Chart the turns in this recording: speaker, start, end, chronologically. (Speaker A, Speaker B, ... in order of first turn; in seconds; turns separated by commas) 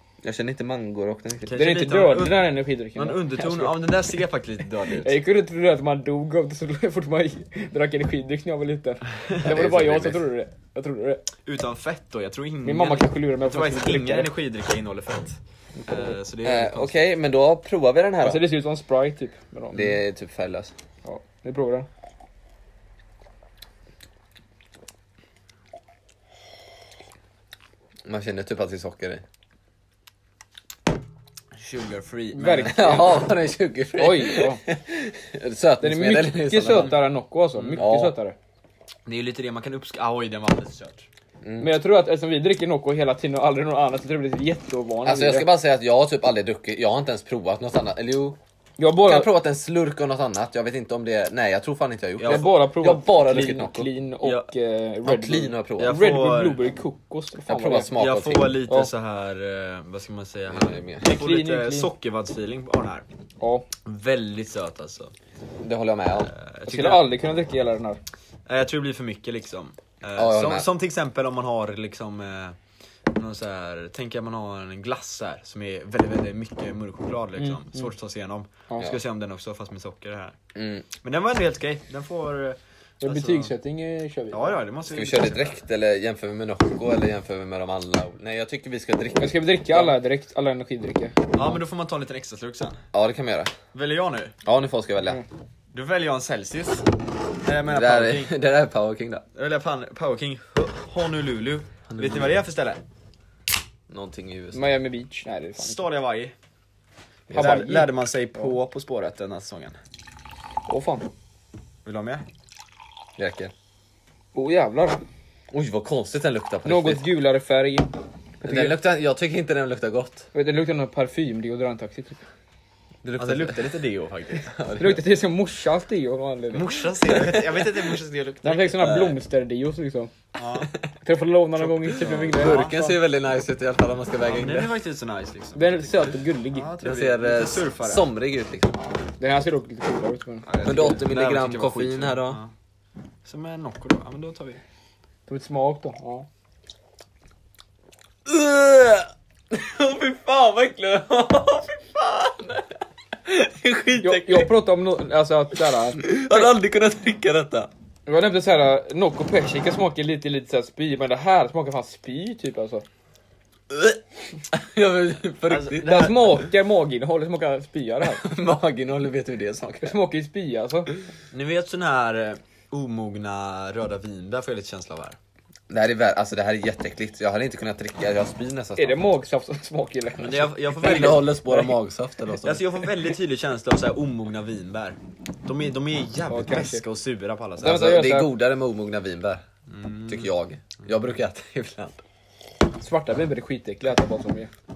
Speaker A: 0.2-1.6, Speaker B: 1.5-5.2, Speaker C: 1.5-3.8, Speaker C: 5.0-11.2, Speaker A: 9.4-10.2, Speaker B: 11.5-17.0, Speaker C: 12.6-14.3, Speaker C: 15.8-16.2, Speaker A: 16.4-18.4, Speaker C: 18.2-20.0, Speaker A: 19.7-20.7, Speaker C: 21.1-21.9, Speaker A: 28.1-29.2, Speaker B: 31.6-32.8, Speaker C: 32.3-33.2, Speaker A: 32.6-37.0, Speaker C: 34.0-34.6, Speaker C: 35.8-38.4, Speaker A: 37.8-38.1, Speaker B: 39.1-41.1, Speaker A: 41.4-41.7, Speaker C: 41.6-45.5, Speaker A: 45.0-48.4, Speaker C: 48.8-49.3, Speaker A: 49.0-53.9, Speaker B: 52.2-52.5, Speaker C: 52.2-58.0, Speaker B: 54.2-54.5, Speaker A: 55.0-56.0, Speaker B: 55.8-56.6, Speaker A: 57.5-58.6, Speaker B: 58.0-63.1, Speaker A: 60.5-61.1, Speaker C: 61.0-61.9, Speaker C: 63.4-63.7, Speaker B: 63.9-65.1, Speaker A: 65.6-66.3, Speaker B: 66.3-67.1, Speaker C: 66.7-68.0, Speaker B: 68.5-72.6, Speaker A: 70.2-70.7, Speaker B: 73.1-80.4, Speaker C: 77.4-77.9, Speaker A: 80.5-80.9, Speaker B: 81.0-83.5, Speaker C: 83.0-84.5, Speaker B: 84.3-85.6, Speaker A: 84.9-90.0, Speaker C: 89.2-91.3, Speaker B: 91.3-92.8, Speaker A: 92.9-93.5, Speaker B: 93.7-94.3, Speaker A: 94.5-95.2, Speaker B: 95.7-96.9, Speaker B: 97.4-98.3, Speaker A: 97.7-99.2, Speaker B: 99.3-102.8, Speaker A: 101.9-102.4, Speaker A: 103.9-104.7, Speaker C: 104.5-105.8, Speaker B: 105.6-106.3, Speaker A: 107.3-107.7, Speaker C: 107.3-108.5, Speaker B: 107.3-109.8, Speaker C: 110.7-111.1, Speaker B: 111.8-112.2, Speaker A: 113.2-113.5, Speaker C: 114.3-115.0, Speaker A: 115.5-117.0, Speaker C: 116.7-118.8, Speaker A: 118.5-120.3, Speaker C: 120.3-122.2, Speaker A: 123.0-123.7, Speaker B: 123.2-124.5, Speaker A: 124.5-125.0, Speaker C: 124.7-126.8, Speaker B: 126.5-128.9, Speaker A: 127.1-127.7, Speaker C: 128.4-130.1, Speaker A: 128.8-129.2, Speaker B: 130.4-130.7, Speaker C: 131.0-133.0, Speaker A: 131.8-134.7, Speaker B: 131.9-132.8, Speaker B: 134.2-138.1, Speaker C: 135.6-136.7, Speaker A: 136.8-138.8, Speaker C: 139.2-141.0, Speaker B: 140.5-142.5, Speaker A: 140.6-142.4, Speaker B: 143.2-144.6, Speaker C: 145.3-146.3, Speaker A: 148.3-154.5, Speaker C: 154.0-156.5, Speaker A: 155.7-157.7, Speaker C: 158.1-162.8, Speaker A: 163.7-164.0, Speaker A: 164.5-166.2, Speaker B: 165.5-166.2, Speaker C: 165.8-168.2, Speaker A: 168.1-169.9, Speaker C: 169.8-170.9, Speaker B: 171.3-175.2, Speaker A: 175.7-179.1, Speaker C: 178.8-181.1, Speaker B: 180.2-181.7, Speaker A: 180.8-182.9, Speaker B: 182.4-187.9, Speaker C: 186.3-186.8, Speaker C: 187.6-188.3, Speaker A: 187.6-189.4, Speaker B: 189.7-190.3, Speaker A: 190.1-192.0, Speaker C: 192.8-194.5